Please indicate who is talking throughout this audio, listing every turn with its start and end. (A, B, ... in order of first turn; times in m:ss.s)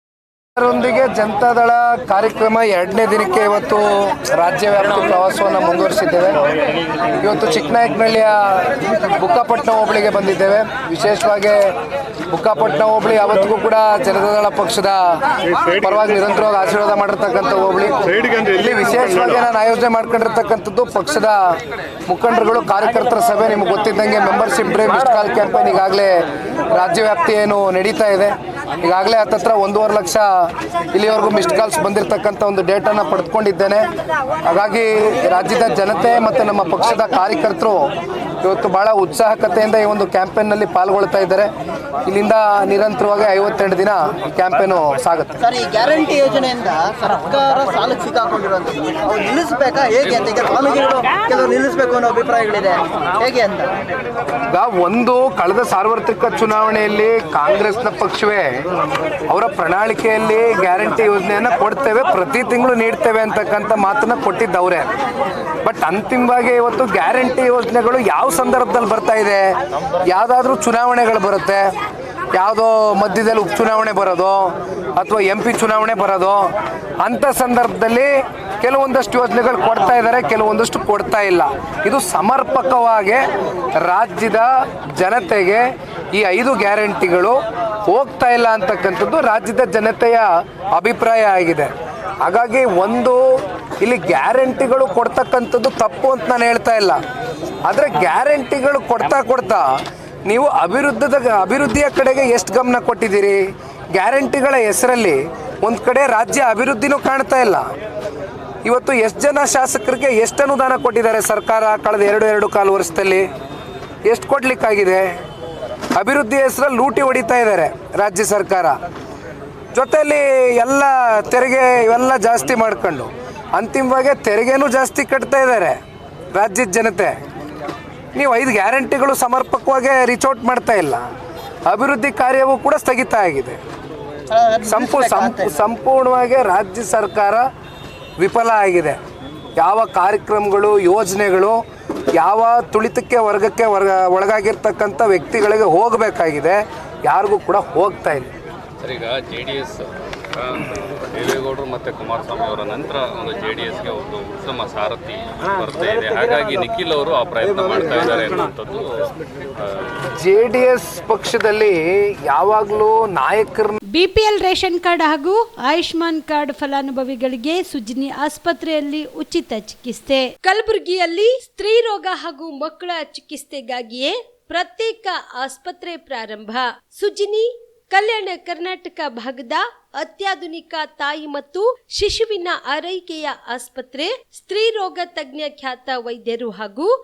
0:00.6-0:06.4 A
0:07.2-0:11.7 A
0:12.3-0:21.5 A
0:22.1-0:33.8 A
0:34.4-0:37.9 A
0:38.4-0:41.5 A
0:42.0-0:45.4 A
0:45.4-0:53.8 B
0:54.5-0:58.5 A
0:59.3-1:04.9 A
1:05.6-1:09.6 A
1:10.1-1:11.7 A
1:12.3-1:23.3 A
1:23.8-1:27.4 A
1:27.9-1:31.7 A
1:32.2-1:33.2 A
1:33.8-1:37.0 A
1:37.7-1:39.6 A
1:40.3-1:43.4 A
1:44.0-1:47.7 A
1:48.6-1:53.2 A
1:54.0-1:55.2 A
1:56.0-1:58.8 A
1:59.7-2:05.8 A
2:06.3-2:07.2 A
2:08.2-2:11.0 A
2:11.7-2:13.6 A
2:14.3-2:15.6 B
2:14.6-2:17.5 A
2:18.2-2:19.0 A
2:19.6-2:21.6 A
2:22.2-2:28.3 A
2:28.8-2:40.0 C
2:40.2-2:43.8 A
2:43.9-3:06.9 D